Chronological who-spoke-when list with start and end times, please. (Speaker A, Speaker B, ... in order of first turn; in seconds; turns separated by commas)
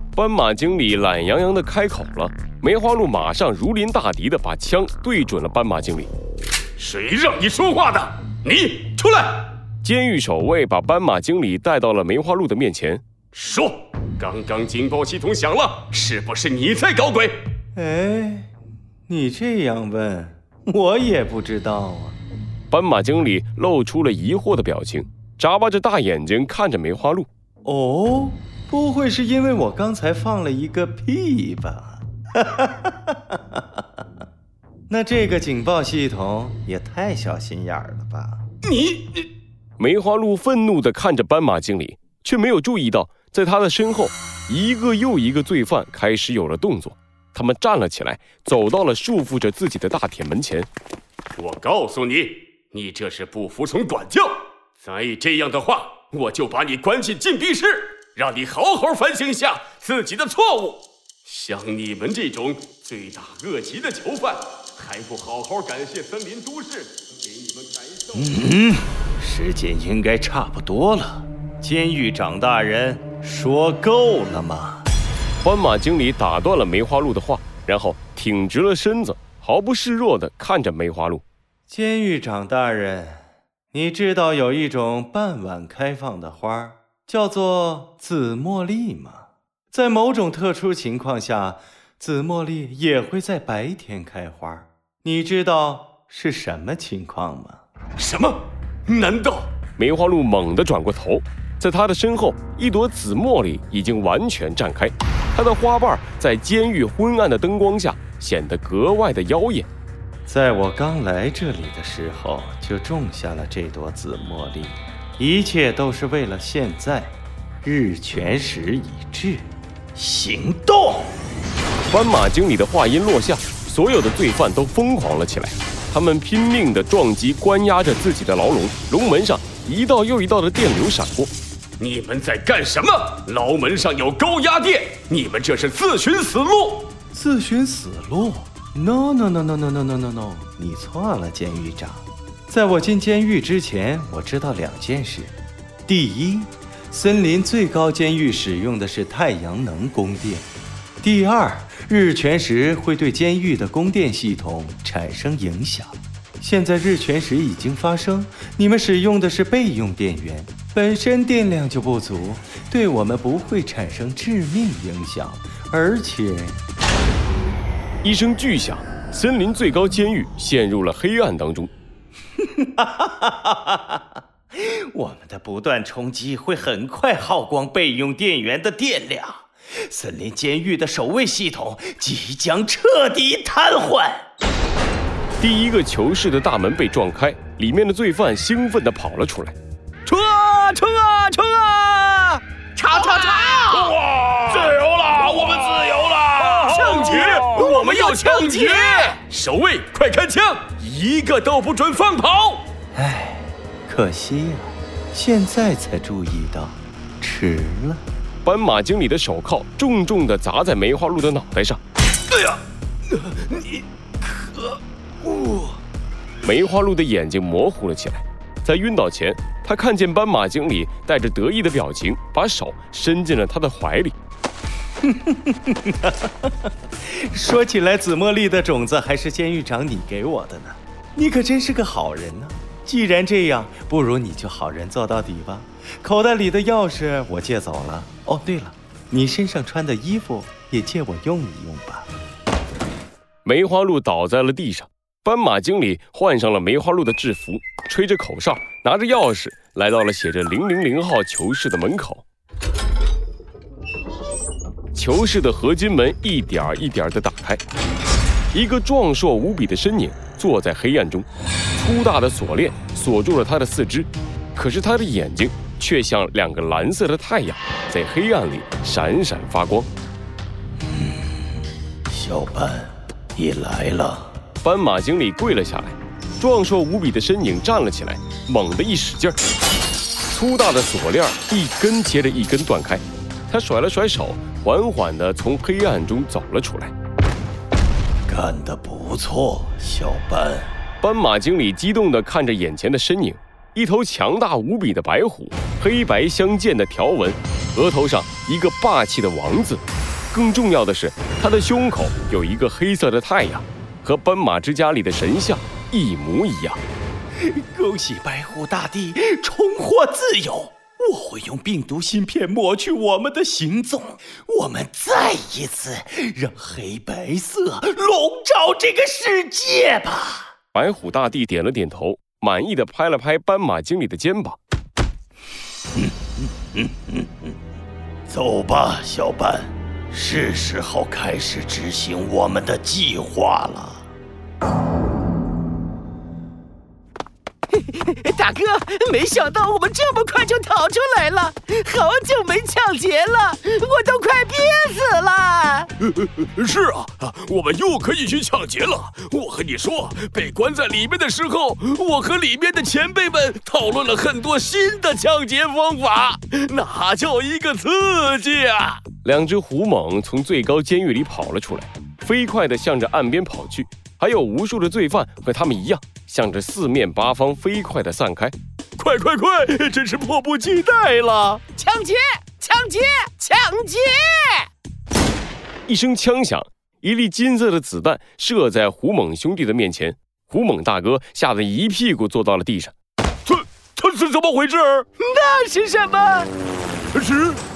Speaker A: 0.1-6.1, Speaker B: 6.8-9.4, Speaker A: 9.8-13.0, Speaker B: 13.3-17.4, Speaker C: 17.8-18.5, Speaker C: 19.1-22.2, Speaker A: 22.7-27.3, Speaker C: 27.6-33.8, Speaker C: 34.9-38.4, Speaker B: 38.7-39.2, Speaker A: 39.8-50.7, Speaker B: 51.4-68.3, Speaker C: 68.1-74.9, Speaker A: 75.4-81.2, Speaker C: 81.7-97.6, Speaker B: 98.0-99.5, Speaker A: 99.8-109.7, Speaker C: 110.3-121.1, Speaker A: 121.9-131.3, Speaker B: 131.8-136.9, Speaker C: 137.1-145.3, Speaker C: 145.9-150.5, Speaker C: 151.0-166.6, Speaker A: 168.0-171.7, Speaker C: 172.6-174.0, Speaker C: 174.6-184.2, Speaker A: 185.4-189.6, Speaker B: 190.1-202.7, Speaker C: 202.9-208.0, Speaker A: 208.4-211.8, Speaker B: 213.2-213.8, Speaker B: 215.3-215.7, Speaker A: 216.4-224.2, Speaker C: 225.0-242.1, Speaker A: 243.4-252.2, Speaker A: 254.9-257.6, Speaker A: 258.5-269.9, Speaker C: 270.9-271.4, Speaker C: 272.1-274.3, Speaker A: 274.6-279.4, Speaker A: 280.3-286.9, Speaker C: 288.3-290.7, Speaker A: 291.0-306.8, Speaker C: 307.4-320.5, Speaker A: 320.7-324.6, Speaker C: 326.8-327.3, Speaker C: 328.3-334.1, Speaker D: 337.7-345.9, Speaker B: 346.0-359.1, Speaker A: 359.2-368.6, Speaker B: 369.0-371.7, Speaker D: 371.8-374.7, Speaker A: 375.9-382.9, Speaker B: 383.5-385.0, Speaker D: 385.2-386.5